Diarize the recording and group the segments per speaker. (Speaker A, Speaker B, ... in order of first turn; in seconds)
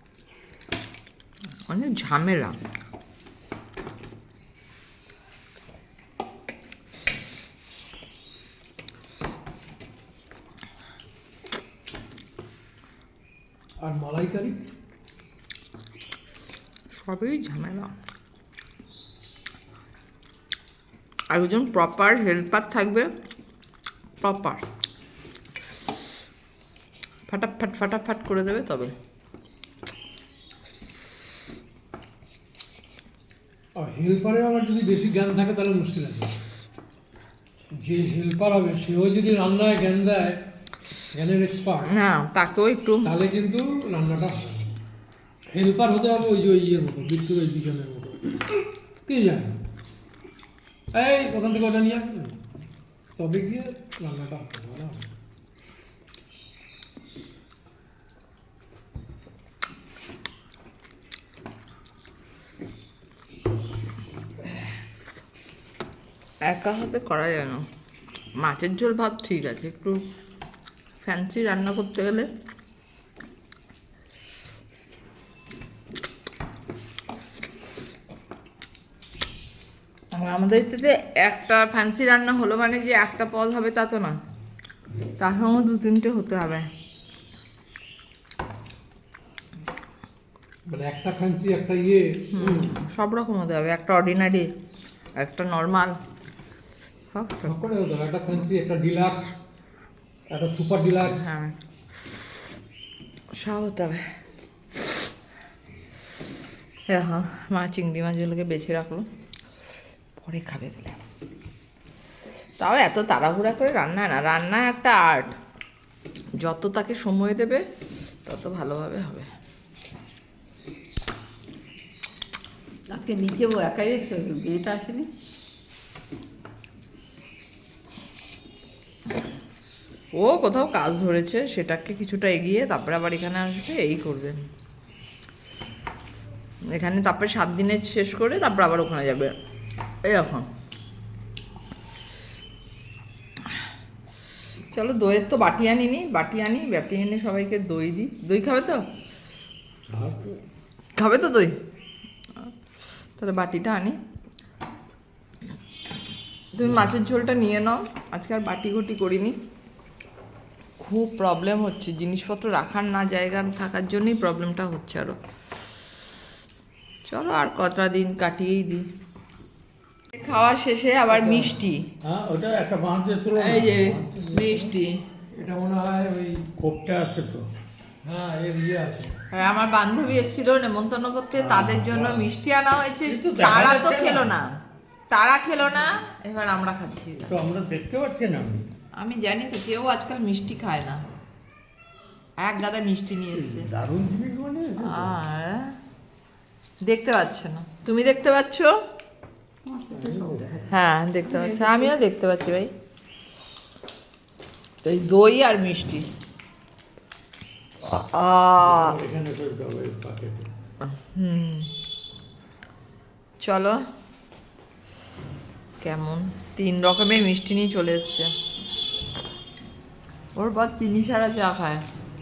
Speaker A: 1.7-2.6, 16.9-17.9, 21.3-23.1, 24.2-24.6, 27.3-28.9, 41.8-43.1, 66.4-67.6, 68.4-70.0, 71.0-72.3, 80.2-84.1, 85.2-86.7, 92.3-94.5, 95.2-96.0, 97.1-97.6, 101.0-101.5, 103.3-104.0, 106.9-109.0, 110.2-111.0, 112.6-115.3, 116.4-117.6, 118.2-119.3, 130.2-134.4, 136.7-139.3, 140.1-140.4, 144.7-148.8, 150.9-151.5, 153.2-153.9, 156.5-159.3, 160.8-165.2, 167.1-168.8, 170.1-171.8, 173.3-175.0, 179.3-184.5, 185.1-187.3, 189.0-191.0, 192.4-193.7, 194.8-195.8, 196.8-198.7, 200.7-202.7, 204.8-206.1, 207.8-209.0, 210.8-211.7, 213.4-213.8, 215.8-218.3, 220.3-221.8
Speaker B: 13.8-14.6, 33.8-36.3, 37.8-40.4, 41.1-41.9, 43.0-44.8, 45.5-49.5, 50.9-52.4, 53.2-55.1, 90.7-92.7, 97.4-99.3, 100.3-101.3, 171.1-171.5, 175.3-176.4, 178.0-179.1
Speaker C: 122.9-125.1, 199.6-200.7, 201.3-201.9
Speaker D: 149.9-150.4, 156.6-156.9, 172.0-174.4, 176.6-177.5, 181.3-182.3, 183.1-184.3, 187.2-188.7, 193.3-195.2, 199.9-200.7, 208.6-210.5